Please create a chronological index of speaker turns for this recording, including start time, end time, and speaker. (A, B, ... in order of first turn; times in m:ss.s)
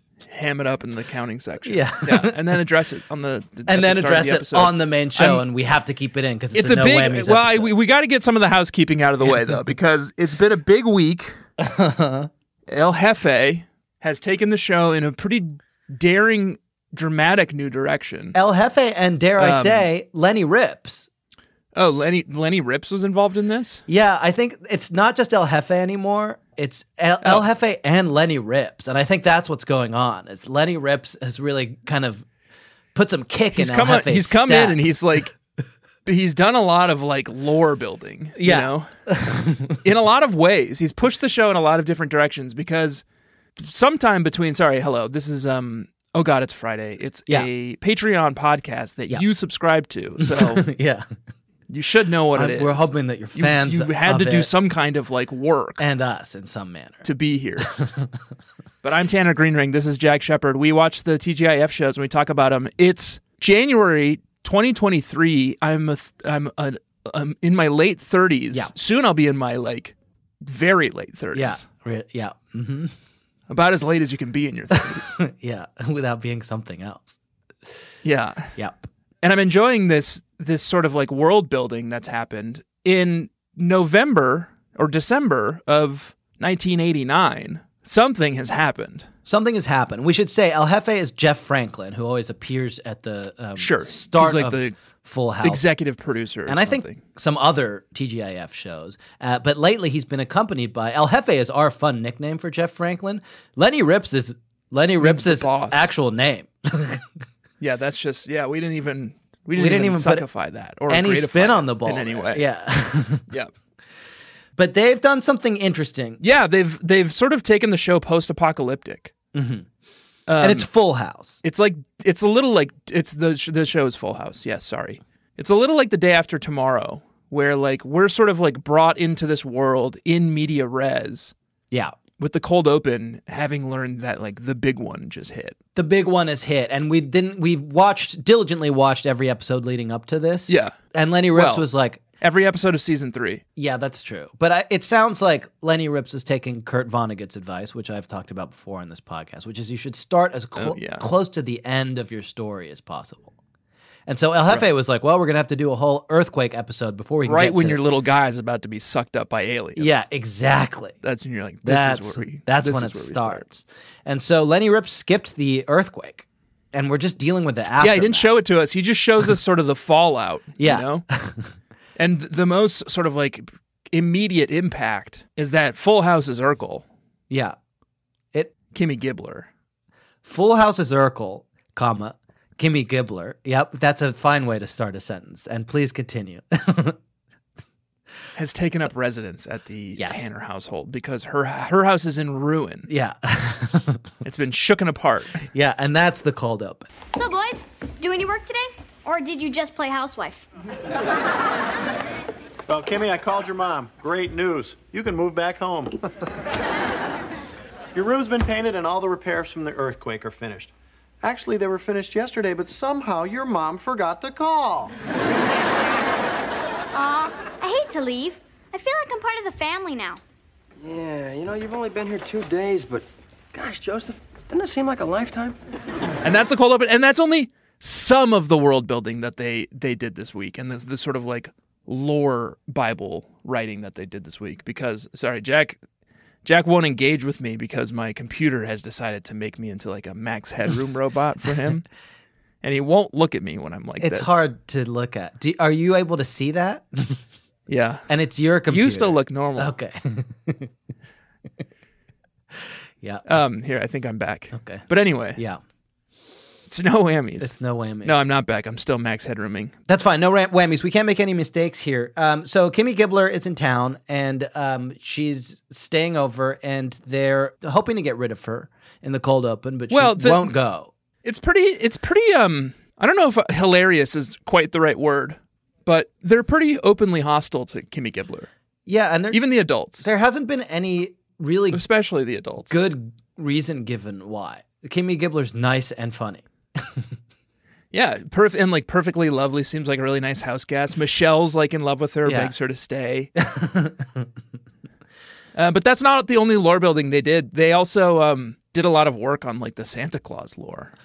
0:00.2-0:05.4 A
0:01.6-0:02.4 B
0:03.7-0:07.7 B
0:06.5-0:11.4 A
0:11.6-0:12.3 B
0:12.7-0:18.4 A
0:18.3-0:21.1 B
0:19.4-0:19.9 A
0:21.7-0:23.8 A
0:23.9-0:32.2 B
0:33.0-0:34.8 B
0:33.6-0:35.4 A
0:36.0-0:39.1 A
0:38.4-0:39.8 B
0:39.7-0:43.0 A
0:43.6-0:50.7 A
0:50.2-0:51.1 B
0:51.7-0:55.8 A
0:52.4-0:54.5 B
0:55.8-0:57.0 B
0:57.0-0:57.7 A
0:57.7-0:58.1 B
0:58.8-1:11.6 A
1:11.3-1:13.0 B
1:13.5-1:15.2 A
1:14.9-1:17.2 B
1:18.0-1:18.6 A
1:18.6-1:18.9 B
1:19.2-1:29.1 A
1:29.3-1:35.6 B
1:33.6-1:34.8 A
1:35.4-1:37.0 A
1:36.5-1:47.0 B
1:45.0-1:45.9 A
1:47.6-1:52.5 A
1:49.6-1:50.3 B
1:50.9-1:53.3 B
1:53.3-1:53.5 A
1:54.6-1:56.2 B
1:56.2-1:59.1 A
1:59.3-1:59.7 B
2:00.3-2:00.7 A
2:00.4-2:01.4 B
2:01.4-2:11.3 A
2:11.7-2:12.0 B
2:12.2-2:15.6 A
2:15.8-2:22.0 B
2:20.5-2:20.8 A
2:21.3-2:21.7 A
2:22.2-2:23.4 A
2:23.6-2:33.3 B
2:30.6-2:31.1 A
2:34.1-2:37.8 B
2:37.2-2:40.1 A
2:39.8-2:41.0 B
2:41.0-2:43.5 A
2:41.6-2:48.3 B
2:47.8-2:51.1 A
2:50.6-2:51.5 B
2:52.0-2:56.8 A
2:57.3-2:57.6 B
2:58.7-2:59.5 A
3:00.2-3:07.0 B
3:08.4-3:12.9 A
3:10.0-3:10.3 B
3:12.9-3:14.0 B
3:14.2-3:15.4 A
3:15.5-3:16.9 B
3:17.1-3:20.5 C
3:22.7-3:26.0 D
3:27.9-3:34.9 D
3:36.9-3:40.2 C
3:40.8-3:45.6 E
3:46.2-3:55.8 A
3:56.4-4:01.9 A
4:02.6-4:04.4 A
4:04.0-4:07.2 B
4:07.7-4:08.1 A
4:08.1-4:10.7 B
4:08.7-4:09.8 A
4:12.5-4:13.2 B
4:13.2-4:15.4 A
4:14.5-4:15.6 B
4:16.7-4:17.5 A
4:17.4-4:18.2 B
4:18.0-4:19.7 A
4:19.9-4:30.9 B
4:29.9-4:30.6 A
4:31.2-4:38.5 A
4:38.9-4:41.8 B
4:39.3-4:40.1 A
4:41.7-4:42.8 A
4:42.7-4:47.1 B
4:47.9-4:53.3 A
4:52.2-4:52.5 B
4:53.4-4:54.3 B
4:55.5-5:00.9 A